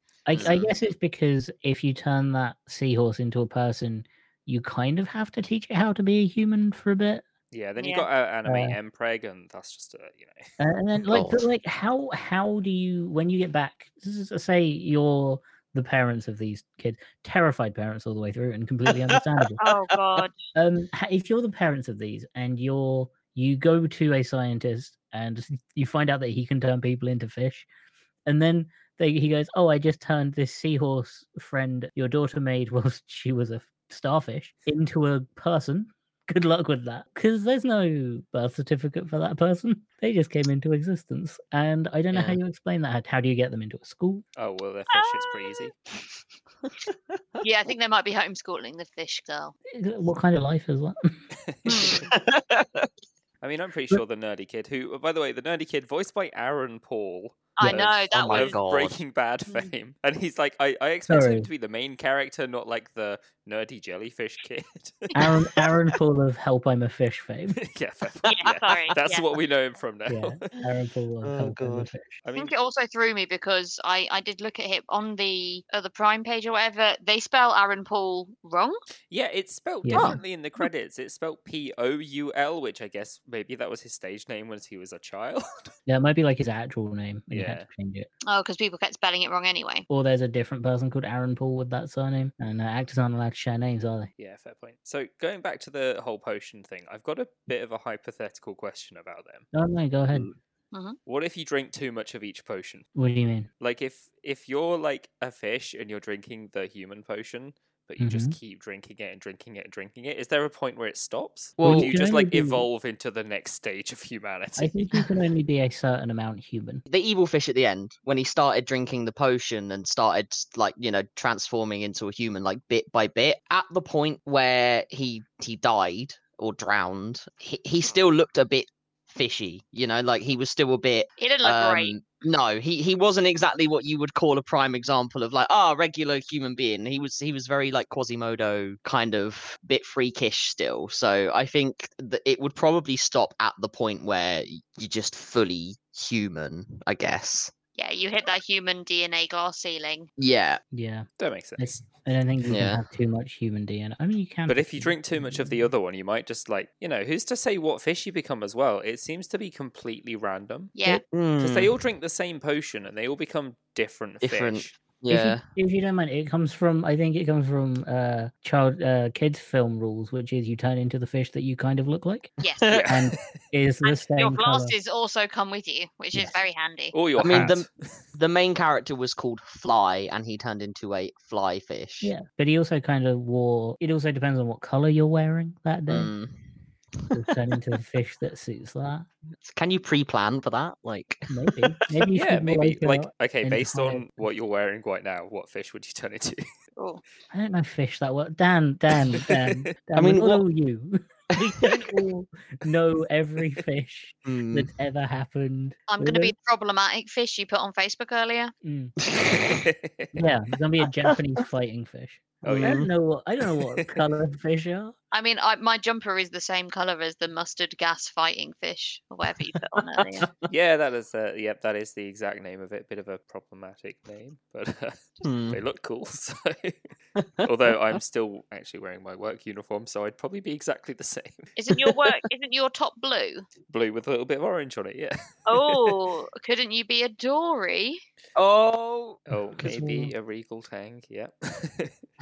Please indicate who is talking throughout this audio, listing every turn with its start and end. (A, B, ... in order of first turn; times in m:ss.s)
0:00.3-0:07.2 A
0:00.4-0:00.7 B
0:07.5-0:10.4 C
0:07.8-0:08.1 D
0:08.5-0:08.8 A
0:10.6-0:19.6 A
0:11.1-0:11.5 B
0:18.9-0:19.7 B
0:19.6-0:20.4 D
0:20.5-0:27.7 A
0:28.3-0:44.2 A
0:42.1-0:42.4 B
0:44.4-0:45.7 C
0:44.9-0:45.7 D
0:46.9-0:47.2 B
0:47.4-0:49.6 D
0:49.7-0:51.1 A
0:51.4-0:52.1 C
0:51.7-0:52.1 D
0:52.1-0:52.9 B
0:53.4-1:05.2 C
0:57.6-0:58.6 D
0:57.6-0:57.9 A
0:58.1-0:59.0 B
1:01.1-1:01.5 A
1:05.2-1:07.6 A
1:07.6-1:10.5 C
1:08.2-1:09.3 D
1:10.1-1:12.2 A
1:11.2-1:11.9 B
1:12.2-1:12.5 C
1:12.4-1:18.8 D
1:19.1-1:25.7 C
1:19.8-1:20.2 A
1:19.9-1:20.2 B
1:25.9-1:28.1 A
1:27.3-1:27.7 C
1:28.3-1:29.9 D
1:29.9-1:34.1 A
1:34.2-1:39.5 C
1:39.5-1:40.3 A
1:40.7-1:41.0 D
1:41.1-1:42.9 C
1:43.0-1:43.5 A
1:43.6-1:54.9 C
1:48.0-1:48.4 A
1:51.6-1:51.9 B
1:51.6-1:52.7 A
1:54.6-1:56.8 A
1:56.9-2:27.5 B
2:11.2-2:12.0 D
2:27.8-2:30.1 D
2:30.2-2:30.6 B
2:30.7-2:35.7 A
2:31.2-2:31.8 C
2:32.5-2:32.8 B
2:34.5-2:40.7 C
2:40.8-2:41.0 D
2:40.9-2:41.7 B
2:41.4-2:44.8 C
2:44.2-2:45.4 B
2:45.1-2:52.3 A
2:52.4-2:52.8 D
2:52.6-2:52.9 B
2:52.7-2:53.2 C
2:52.9-2:54.8 A
2:53.8-2:57.0 D
2:56.9-2:58.0 C
2:57.2-3:02.1 B
3:02.0-3:06.1 A
3:05.9-3:06.4 B
3:07.0-3:07.2 B
3:07.1-3:09.1 A
3:09.4-3:11.7 B
3:11.3-3:14.3 A
3:12.1-3:16.4 C
3:16.8-3:17.0 D
3:17.3-3:26.4 A
3:20.0-3:20.4 B
3:21.4-3:21.9 B
3:24.2-3:24.7 B
3:25.9-3:28.5 D
3:28.6-3:29.0 A
3:29.0-3:29.6 B
3:29.2-3:30.2 C
3:30.1-3:34.9 A
3:32.4-3:32.8 C
3:32.5-3:32.9 B
3:35.1-3:40.3 D
3:40.2-3:40.5 B
3:40.5-3:46.8 C
3:45.2-3:45.6 B
3:47.2-3:47.7 B
3:47.4-3:51.5 C
3:51.6-3:53.5 D
3:53.7-3:56.0 C
3:55.5-3:58.0 D
3:58.4-3:59.2 B
3:59.3-4:02.0 C
3:59.5-4:00.1 A